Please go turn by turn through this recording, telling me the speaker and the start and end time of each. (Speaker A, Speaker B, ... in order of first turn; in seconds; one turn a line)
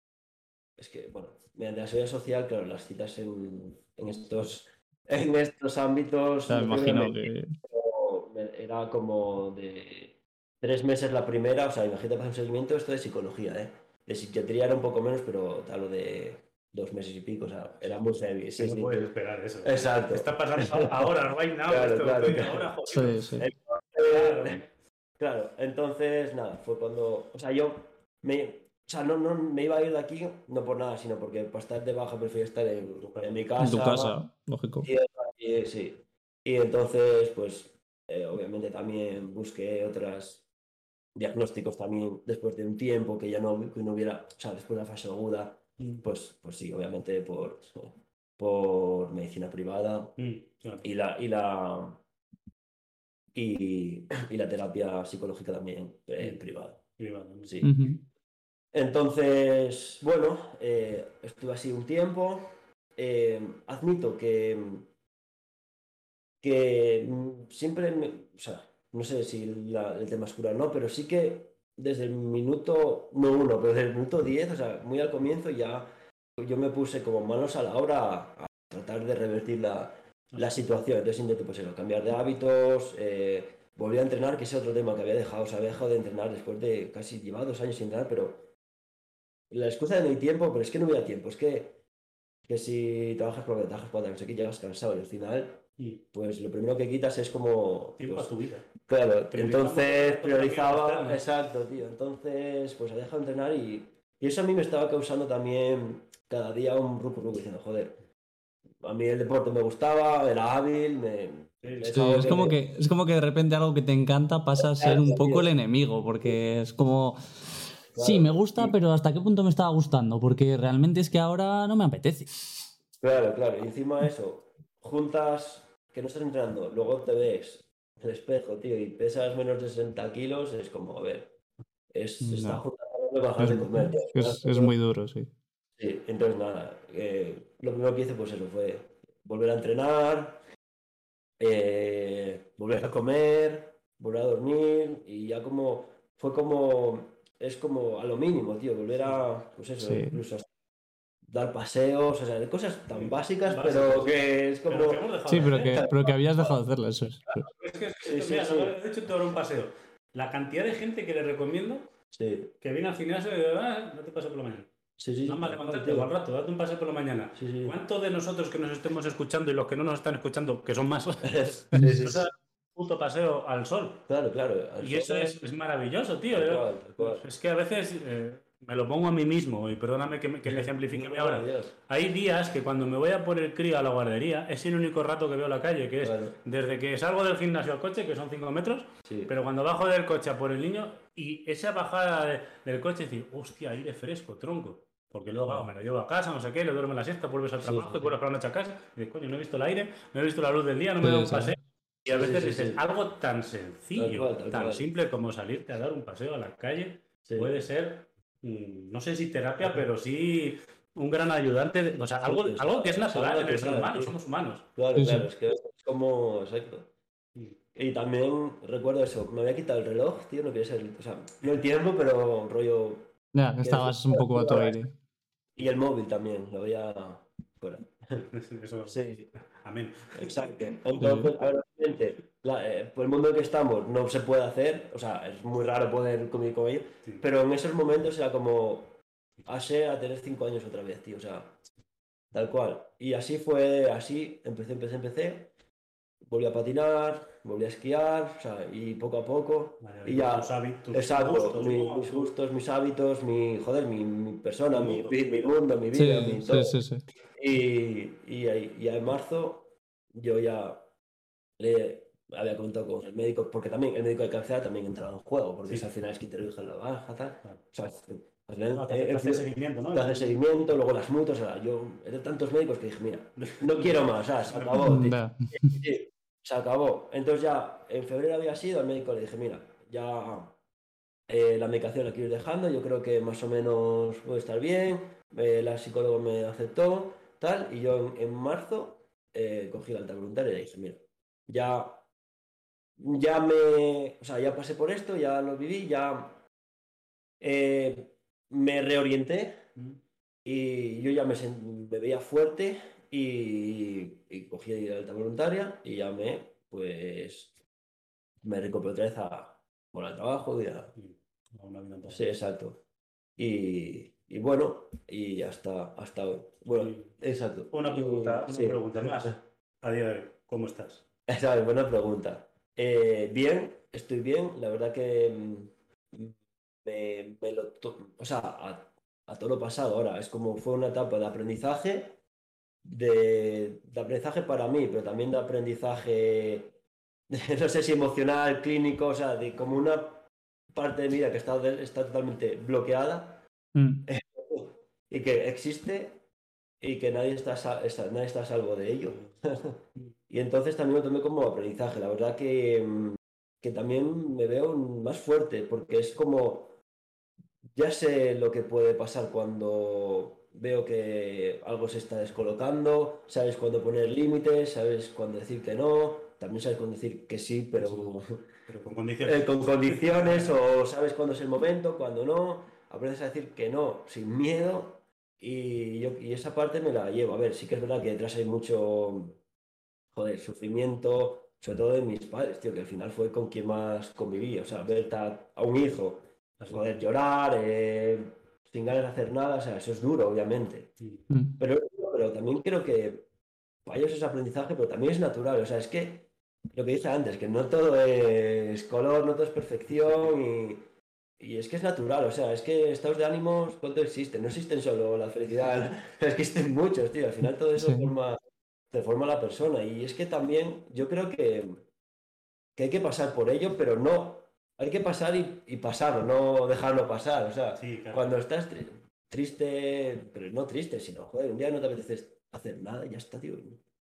Speaker A: 0.8-19.1
Speaker B: 6.5-7.5
Speaker C: 18.6-23.2
Speaker A: 19.6-21.1
Speaker A: 21.7-22.7
Speaker B: 22.9-23.5
Speaker A: 23.4-24.6
Speaker C: 24.1-24.7
Speaker A: 25.2-34.2
Speaker C: 32.8-33.5
Speaker B: 33.6-34.9
Speaker A: 34.8-40.4
Speaker A: 41.2-50.2
Speaker C: 45.8-46.0
Speaker C: 50.2-50.8
Speaker A: 50.8-52.0
Speaker A: 53.3-56.8
Speaker C: 57.0-57.7
Speaker A: 57.4-57.8
Speaker B: 57.6-58.0
Speaker A: 58.7-64.9
Speaker A: 66.4-88.5
Speaker C: 80.3-80.6
Speaker A: 89.5-91.8
Speaker A: 92.5-108.0
Speaker C: 98.0-98.7
Speaker C: 99.3-101.2
Speaker A: 108.8-112.6
Speaker C: 111.6-112.2
Speaker B: 111.9-122.5
Speaker A: 114.6-115.5
Speaker A: 117.9-118.8
Speaker A: 123.0-131.3
Speaker A: 131.9-134.7
Speaker B: 132.2-132.6
Speaker B: 133.4-135.3
Speaker A: 135.8-140.4
Speaker A: 141.4-150.5
Speaker C: 149.0-149.2
Speaker B: 149.8-150.2
Speaker A: 151.3-156.6
Speaker C: 152.9-155.9
Speaker B: 155.3-157.5
Speaker C: 157.5-161.9
Speaker A: 158.0-158.8
Speaker A: 162.1-162.5
Speaker C: 162.6-164.7
Speaker A: 165.0-166.1
Speaker C: 165.2-174.0
Speaker A: 167.3-167.8
Speaker A: 171.3-172.2
Speaker A: 174.1-175.5
Speaker C: 174.8-214.7
Speaker A: 176.3-177.2
Speaker A: 180.4-181.7
Speaker A: 186.0-186.4
Speaker A: 189.1-189.3
Speaker A: 197.6-198.2
Speaker B: 201.0-201.6
Speaker A: 202.1-202.8
Speaker A: 203.9-204.9
Speaker A: 207.3-207.5
Speaker A: 211.9-214.2
Speaker A: 214.7-216.9
Speaker B: 214.9-215.3
Speaker A: 217.8-223.1
Speaker B: 223.3-224.9
Speaker A: 223.6-224.8
Speaker A: 225.6-228.2
Speaker C: 228.2-230.5
Speaker A: 228.9-229.3
Speaker A: 230.1-238.9
Speaker B: 231.0-231.3
Speaker A: 239.5-241.6
Speaker A: 242.3-245.5
Speaker A: 246.2-256.8
Speaker C: 249.8-252.3
Speaker C: 254.7-255.7
Speaker B: 255.9-257.1
Speaker A: 257.3-260.9
Speaker A: 261.6-280.6
Speaker C: 268.7-270.4
Speaker C: 273.4-274.8
Speaker B: 274.8-275.7
Speaker A: 281.3-292.1
Speaker A: 293.0-296.4
Speaker A: 297.4-299.6
Speaker A: 300.4-307.5
Speaker A: 308.4-310.9
Speaker C: 310.9-312.3
Speaker A: 312.1-312.8
Speaker A: 313.4-319.4
Speaker C: 316.7-317.1
Speaker C: 317.7-321.0
Speaker A: 321.3-332.2
Speaker A: 332.9-336.7
Speaker A: 337.3-343.4
Speaker B: 343.8-344.1
Speaker A: 344.1-346.2
Speaker A: 346.8-356.8
Speaker A: 357.7-368.3
Speaker C: 367.8-368.2
Speaker C: 368.7-370.5
Speaker A: 369.2-379.4
Speaker A: 380.1-390.9
Speaker B: 391.3-391.6
Speaker A: 391.6-393.2
Speaker A: 393.9-400.8
Speaker A: 401.4-408.4
Speaker B: 407.8-408.1
Speaker A: 408.9-411.8
Speaker A: 412.8-423.8
Speaker C: 417.8-418.4